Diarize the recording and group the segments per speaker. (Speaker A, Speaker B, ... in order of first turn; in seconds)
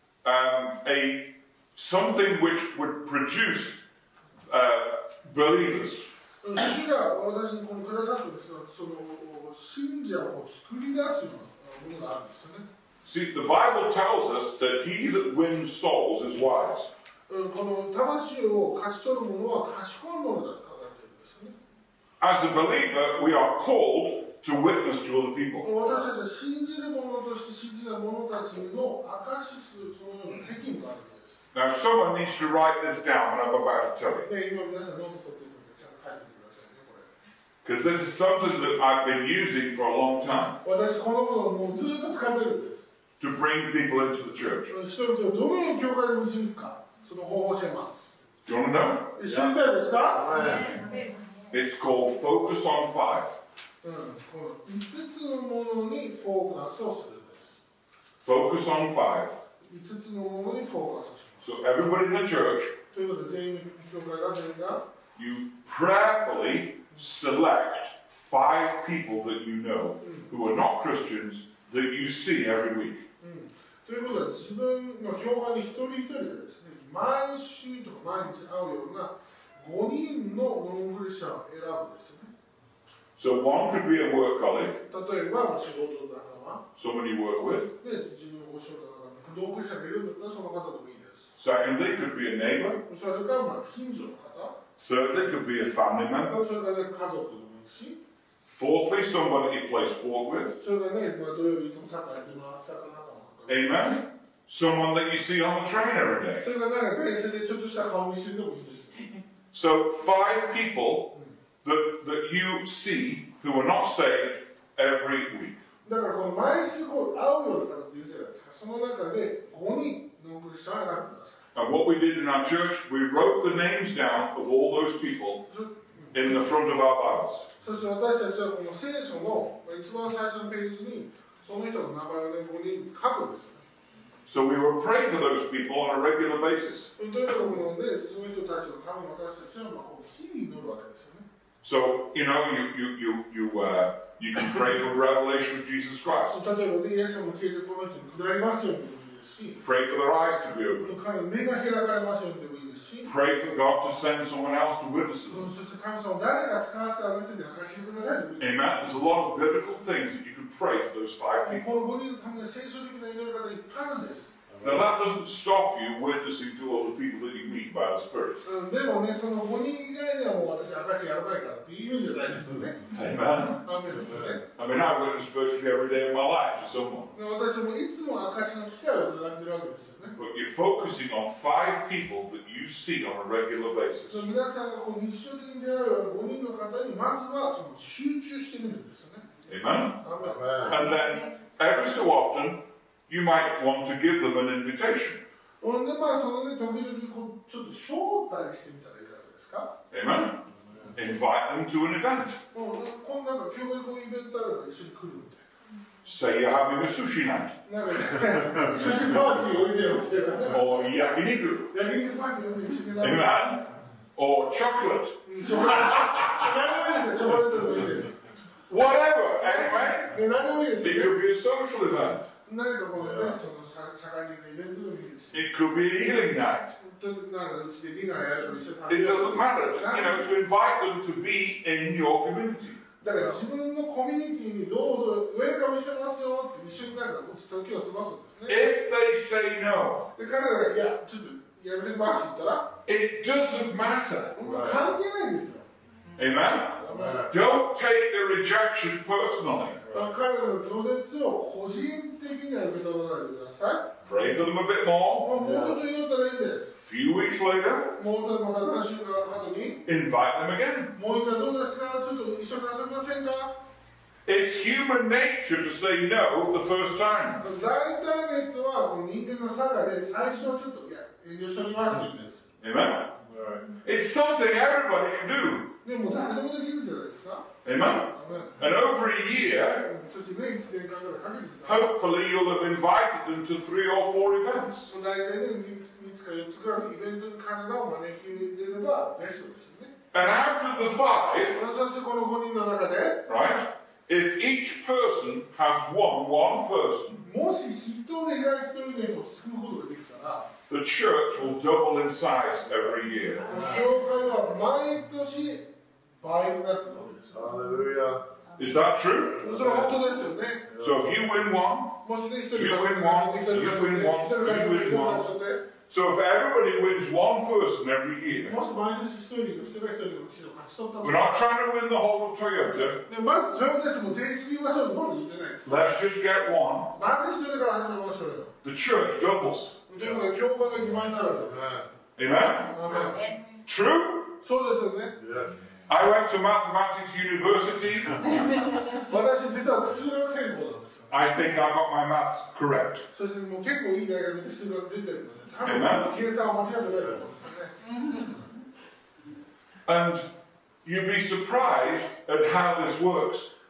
Speaker A: 0.2-3.8, 4.5-6.0, 13.1-16.9, 22.2-25.9, 31.5-34.3, 37.6-40.6, 43.2-44.7, 48.5-49.5, 51.5-53.4, 58.2-59.4, 61.4-62.7, 65.2-73.0, 83.2-84.8, 86.8-87.7, 91.4-92.8, 94.8-96.5, 98.5-100.5, 103.5-106.4, 109.5-115.6, 121.5-125.5, 126.1-127.5, 134.3-136.9, 141.6-146.4, 149.6-150.9, 153.0-155.5, 158.4-161.8, 164.6-168.4, 172.9-173.7, 174.5-177.1, 180.2-184.3, 189.5-190.0, 190.6-195.2, 199.9-200.4, 200.9-202.4, 206.0-207.6, 210.5-211.7, 213.0-216.5, 218.7-220.1, 220.8-222.3, 225.3-226.7, 228.9-232.8, 238.5-240.1, 242.8-244.3, 246.2-249.8, 254.0-255.3, 256.8-257.9, 259.8-260.9, 264.2-267.4, 272.6-273.1, 273.8-275.7, 277.6-279.9, 281.6-284.9, 290.1-291.6, 293.3-297.2, 300.7-303.6, 308.6-309.4, 310.8-315.3, 315.9-318.6, 321.0-323.0, 325.6-326.9, 328.6-329.8, 332.1-334.4, 335.9-338.7, 341.1-343.0, 345.6-346.1, 349.9-350.2, 350.8-353.5
Speaker B: 6.4-12.7, 17.3-21.6, 25.6-31.4, 34.2-37.1, 40.6-42.8, 44.7-48.0, 49.1-50.6, 53.8-57.5, 59.6-61.5, 62.9-64.9, 70.0-70.3, 73.2-82.3, 84.9-86.6, 87.8-91.3, 92.8-94.6, 96.3-98.0, 100.5-104.0, 106.4-109.2, 115.8-121.4, 125.5-126.4, 127.6-133.6, 137.0-141.2, 146.3-149.6, 150.8-153.1, 155.3-158.6, 161.4-164.3, 168.4-172.9, 173.6-174.4, 177.1-180.2, 184.1-189.3, 190.0-190.8, 195.6-199.8, 202.5-205.4, 207.7-210.9, 211.7-213.4, 215.2-218.2, 219.4-221.1, 222.4-225.4, 226.8-230.3, 233.0-238.7, 240.2-242.7, 244.3-245.7, 246.8-247.3, 249.9-253.9, 255.2-256.7, 257.9-259.8, 260.9-263.6, 267.4-272.4, 275.8-277.5, 278.1-278.6, 279.8-281.9, 284.9-289.9, 291.5-293.3, 297.2-300.5, 303.5-305.7, 306.2-307.4, 309.4-310.7, 312.0-315.6, 318.4-321.4, 323.1-325.8, 326.9-328.5, 329.9-331.8, 332.7-333.3, 334.4-335.1, 338.8-341.5, 343.1-348.3
Speaker C: 50.1-50.9, 164.5-164.9, 173.9-174.4, 190.2-190.8, 200.6-200.9, 223.0-223.4, 233.0-233.4, 244.4-244.9, 246.9-247.3, 249.8-250.1, 255.4-255.8, 273.2-273.7, 307.3-308.2, 309.4-309.9, 310.7-311.1, 331.4-331.9, 335.2-335.8